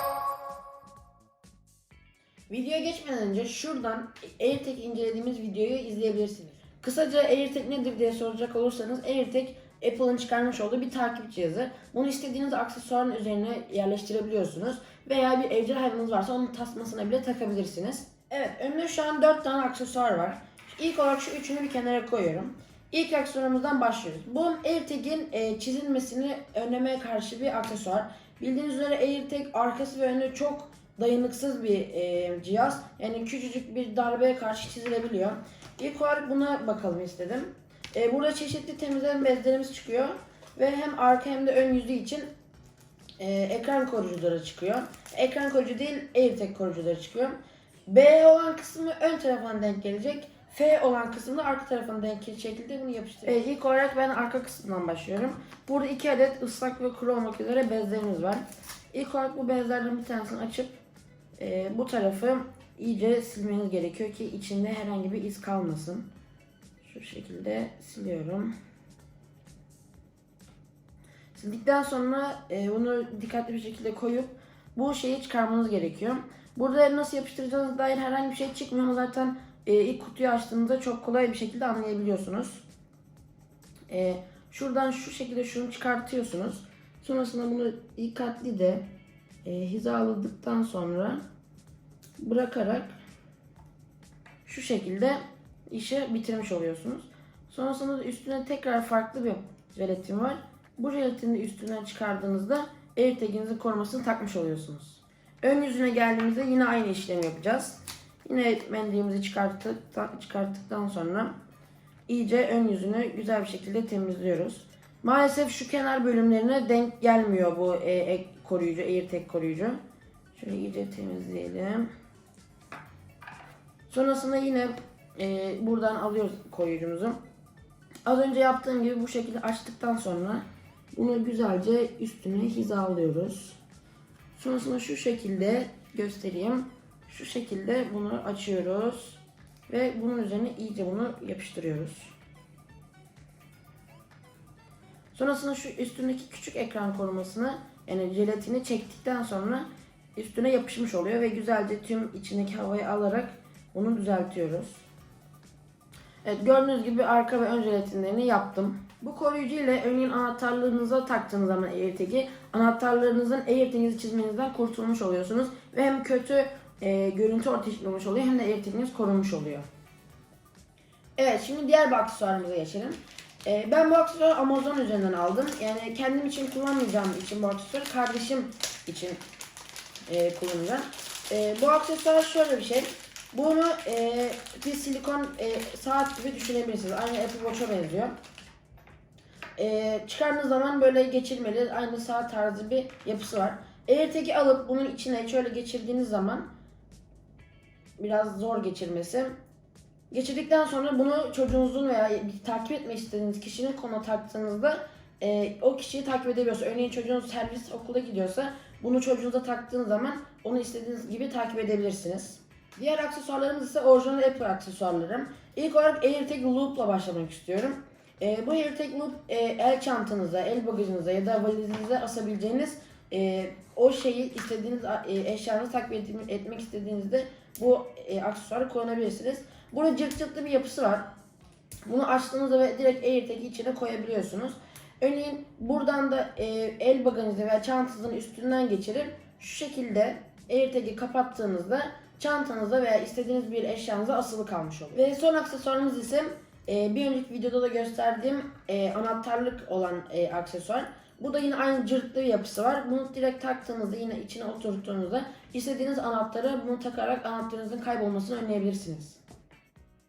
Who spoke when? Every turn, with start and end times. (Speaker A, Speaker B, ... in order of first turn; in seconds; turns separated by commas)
Speaker A: 2.5-42.3, Speaker A: 43.2-60.8, Speaker A: 61.4-66.1, Speaker A: 66.8-68.5, Speaker A: 71.3-82.6, Speaker A: 83.9-88.9, Speaker A: 89.4-91.2, Speaker A: 92.2-93.0, Speaker A: 94.5-111.3, Speaker A: 112.1-119.8, Speaker A: 120.3-121.9, Speaker A: 123.9-127.2, Speaker A: 128.1-133.6, Speaker A: 134.3-142.1, Speaker A: 145.1-154.8, Speaker A: 156.2-169.7, Speaker A: 171.2-179.2, Speaker A: 180.1-188.1, Speaker A: 189.6-196.5, Speaker A: 198.0-199.3, Speaker A: 200.1-231.1, Speaker A: 231.8-259.2